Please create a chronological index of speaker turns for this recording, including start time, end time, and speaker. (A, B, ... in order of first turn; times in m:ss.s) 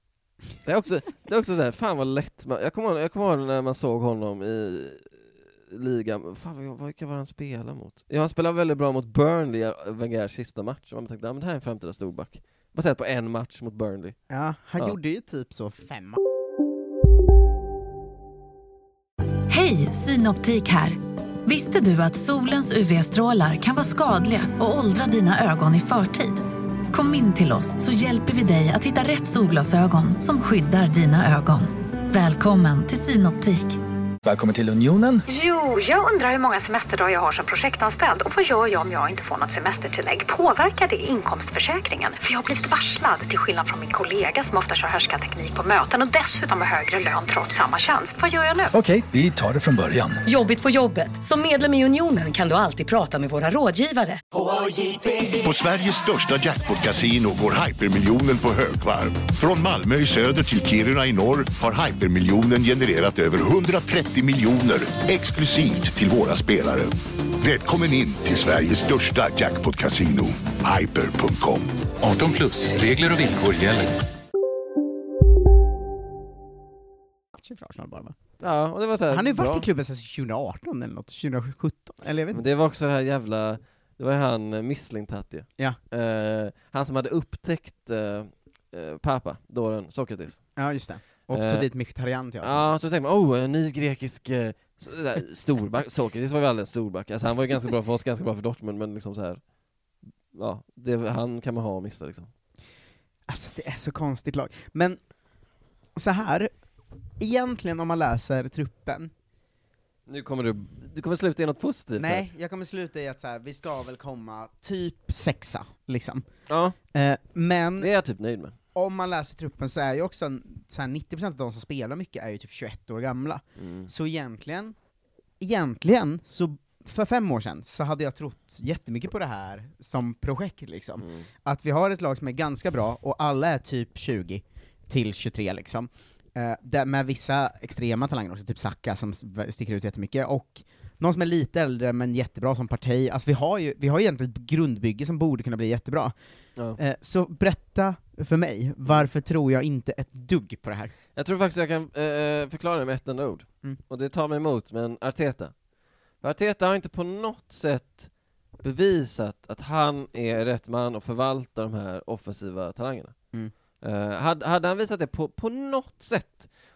0:00.6-0:14.2 A
0:14.3-0:16.2 B
0:19.5-0:20.8 C
0:21.5-0:26.4 C
0:27.0-0:33.7 C
0:34.3-0:35.2 D
0:35.3-0:48.8 E
0:48.9-0:50.1 D
0:50.3-0:54.9 F
0:55.4-1:11.7 G
1:12.0-1:13.8 D
1:17.4-1:18.2 B
1:18.4-1:19.7 A
1:19.1-1:22.4 B
1:22.3-1:30.6 A
1:30.6-1:32.8 B
1:31.3-1:31.7 A
1:32.4-1:39.4 A
1:40.3-1:42.3 A
1:43.3-1:45.0 B
1:46.0-1:46.6 B
1:47.2-1:49.1 B
1:50.1-1:52.2 A
1:52.0-1:56.3 B
1:56.5-1:56.8 A
1:56.9-1:57.9 B
1:57.8-1:58.6 A
1:58.7-2:04.8 B
2:03.6-2:03.9 A
2:05.4-2:26.2 B
2:11.0-2:11.3 A
2:26.7-2:30.9 B
2:31.2-2:35.6 A
2:36.2-2:43.2 A
2:43.8-2:46.6 A